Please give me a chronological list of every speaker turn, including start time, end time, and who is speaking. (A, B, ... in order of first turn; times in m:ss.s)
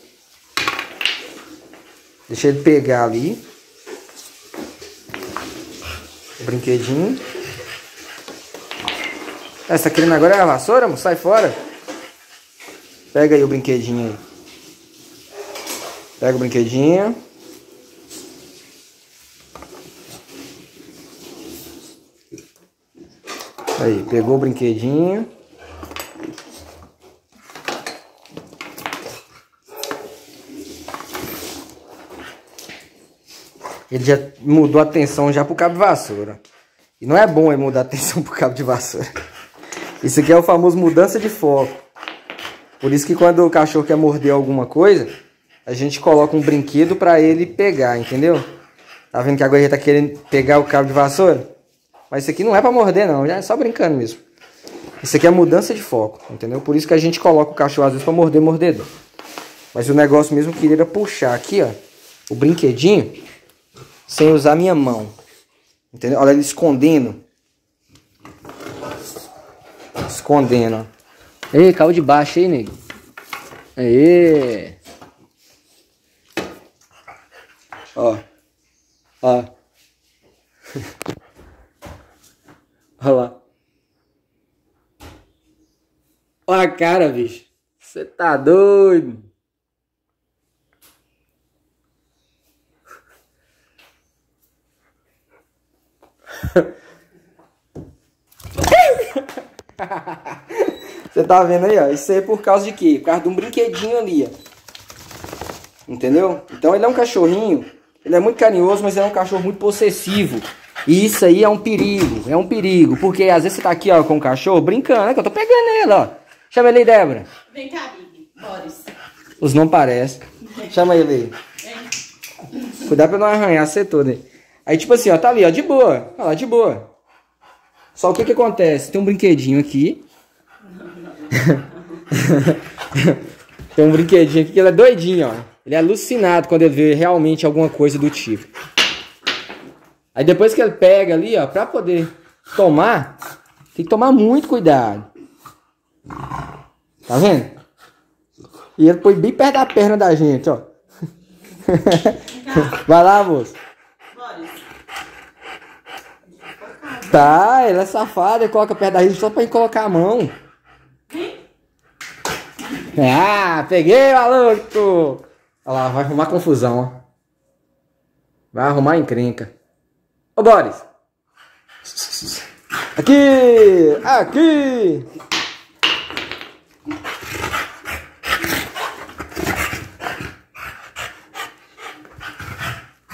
0:02.3-0:03.4 A
0:06.4-0:07.2 A
0:09.7-0:11.6 A
0:13.1-0:14.2 A
0:16.2-0:17.2 A
0:23.8-0:25.3 A
0:33.9-0:36.4 A
0:37.0-0:39.0 A
0:40.0-0:41.8 A
0:42.8-0:45.1 A
0:45.6-0:48.4 A
0:49.1-0:51.5 A
0:52.1-0:54.2 A
0:55.0-0:58.9 A
0:59.7-1:01.8 A
1:02.3-1:03.2 A
1:04.1-1:05.1 A
1:05.9-1:07.2 A
1:10.0-1:10.9 A
1:11.5-1:12.7 A
1:13.8-1:14.8 A
1:17.9-1:18.2 A
1:19.2-1:19.5 A
1:23.0-1:23.4 A
1:26.5-1:29.2 A
1:38.9-1:39.2 A
1:39.8-1:44.3 A
1:45.9-1:57.3 A
1:57.5-1:58.9 B
1:59.4-2:01.3 A
2:01.6-2:01.9 B
2:02.8-2:06.8 A
2:08.0-2:10.0 A
2:10.8-2:11.4 B
2:11.3-2:13.2 A
2:13.7-2:18.5 A
2:20.1-2:23.2 A
2:23.7-2:25.1 A
2:27.0-2:27.5 A
2:28.8-2:30.7 A
2:31.6-2:33.6 A
2:32.4-2:32.8 B
2:34.1-2:34.6 B
2:36.4-2:37.4 B
2:37.0-2:40.3 A
2:41.1-2:41.4 B
2:42.9-2:47.0 A
2:48.5-2:49.5 A
2:50.4-2:50.8 A
2:53.0-2:55.0 A